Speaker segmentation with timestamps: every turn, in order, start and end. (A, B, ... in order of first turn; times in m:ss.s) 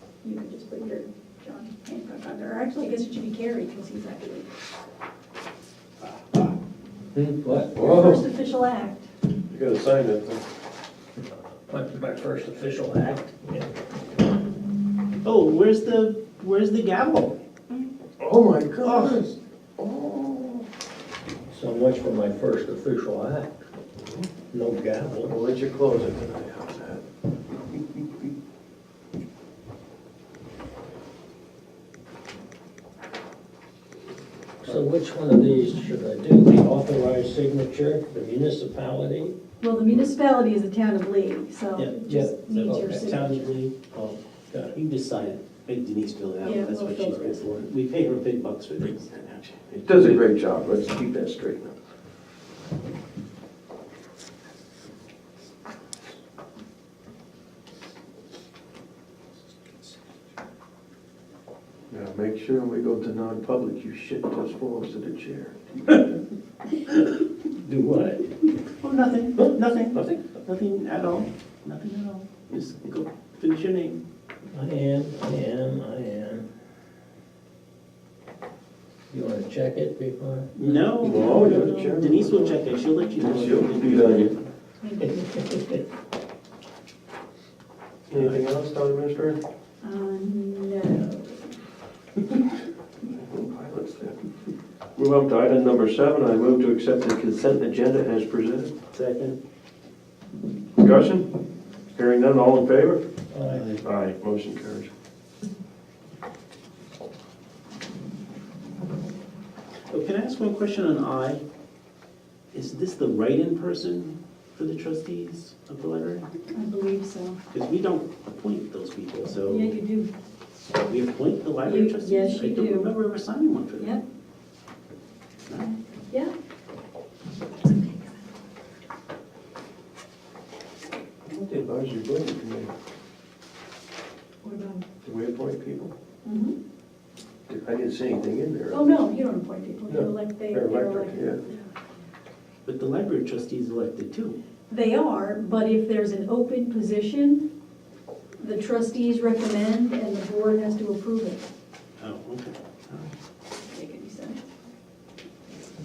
0:00.2-0:04.5 A
0:06.0-0:06.5 B
0:07.1-0:07.9 C
0:07.7-0:08.2 D
0:07.8-0:09.1 A
0:09.5-0:10.4 D
0:11.7-0:13.7 C
0:15.2-0:17.4 B
0:18.2-0:20.6 D
0:18.8-0:19.1 B
0:21.5-0:23.5 C
0:24.0-0:24.3 D
0:24.5-0:25.3 C
0:25.3-0:27.0 D
0:34.6-0:39.3 C
0:39.6-0:43.5 A
0:41.8-0:44.2 B
0:42.1-0:43.0 C
0:44.7-0:50.2 B
0:46.4-0:47.5 A
0:49.8-0:51.8 D
1:01.9-1:06.2 D
1:07.6-1:08.3 C
1:08.8-1:14.0 B
1:09.9-1:10.2 D
1:14.5-1:16.5 C
1:19.1-1:20.5 C
1:20.6-1:24.4 B
1:20.6-1:22.6 D
1:23.2-1:24.3 D
1:24.8-1:25.6 A
1:28.1-1:29.4 D
1:28.1-1:28.4 B
1:29.8-1:31.6 A
1:33.0-1:34.2 D
1:35.0-1:38.7 D
1:38.9-1:39.4 B
1:40.8-1:41.3 D
1:41.9-1:43.0 D
1:43.3-1:43.6 C
1:43.5-1:43.8 B
1:43.8-1:44.9 D
1:49.9-1:51.4 B
1:52.5-1:56.3 B
1:56.5-1:57.4 A
1:57.5-1:59.8 B
1:59.5-2:00.1 A
2:00.8-2:04.0 B
2:01.6-2:02.9 A
2:03.8-2:04.0 A
2:05.4-2:05.8 B
2:11.2-2:12.7 D
2:14.4-2:14.8 A
2:15.0-2:15.9 D
2:16.2-2:16.6 A
2:17.5-2:18.9 D
2:18.7-2:21.7 A
2:19.9-2:21.4 D
2:22.6-2:24.4 B
2:24.7-2:27.4 A
2:28.4-2:31.4 A
2:32.0-2:33.1 B
2:33.6-2:34.5 A